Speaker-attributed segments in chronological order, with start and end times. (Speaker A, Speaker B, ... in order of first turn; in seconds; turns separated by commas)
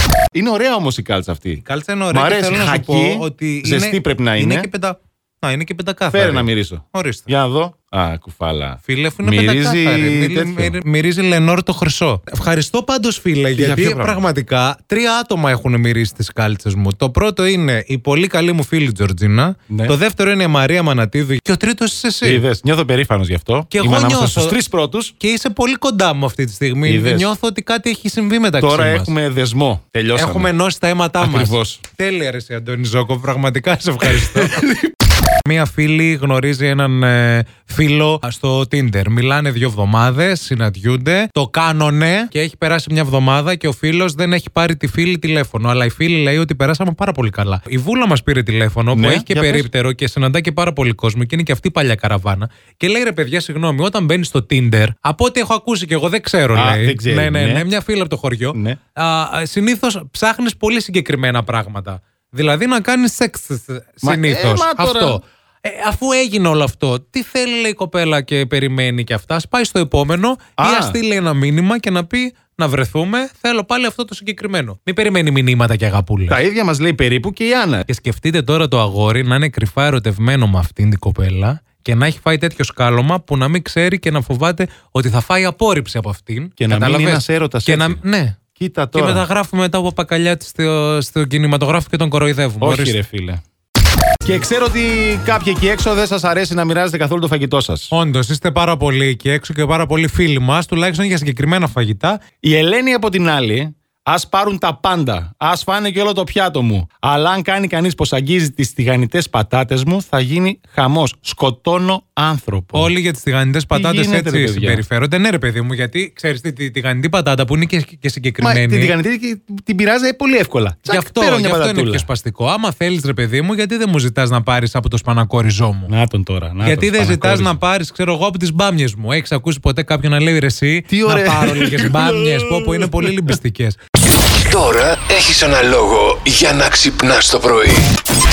Speaker A: 0.3-4.7, Speaker B: 1.6-7.3, Speaker A: 6.1-10.8, Speaker B: 8.8-22.4, Speaker A: 13.6-14.2, Speaker A: 19.7-19.9, Speaker A: 22.2-25.1, Speaker B: 23.7-24.6, Speaker B: 25.2-29.1, Speaker A: 26.9-27.3, Speaker A: 28.6-30.5, Speaker B: 30.2-76.4, Speaker A: 31.2-31.8, Speaker A: 34.2-34.8, Speaker A: 48.9-49.7, Speaker A: 56.5-57.6, Speaker A: 58.5-58.8, Speaker A: 64.0-65.2, Speaker A: 70.6-71.0, Speaker A: 76.3-77.9, Speaker B: 77.9-88.4, Speaker A: 86.6-88.0, Speaker A: 88.6-89.3, Speaker B: 89.0-93.0, Speaker A: 92.6-93.4, Speaker A: 94.2-97.9, Speaker B: 97.9-102.2, Speaker A: 102.4-112.9, Speaker B: 112.7-119.0, Speaker A: 113.7-114.8, Speaker A: 118.4-122.1, Speaker B: 120.9-125.9, Speaker A: 125.9-127.6, Speaker B: 126.6-133.8, Speaker A: 130.9-133.3, Speaker C: 134.2-137.9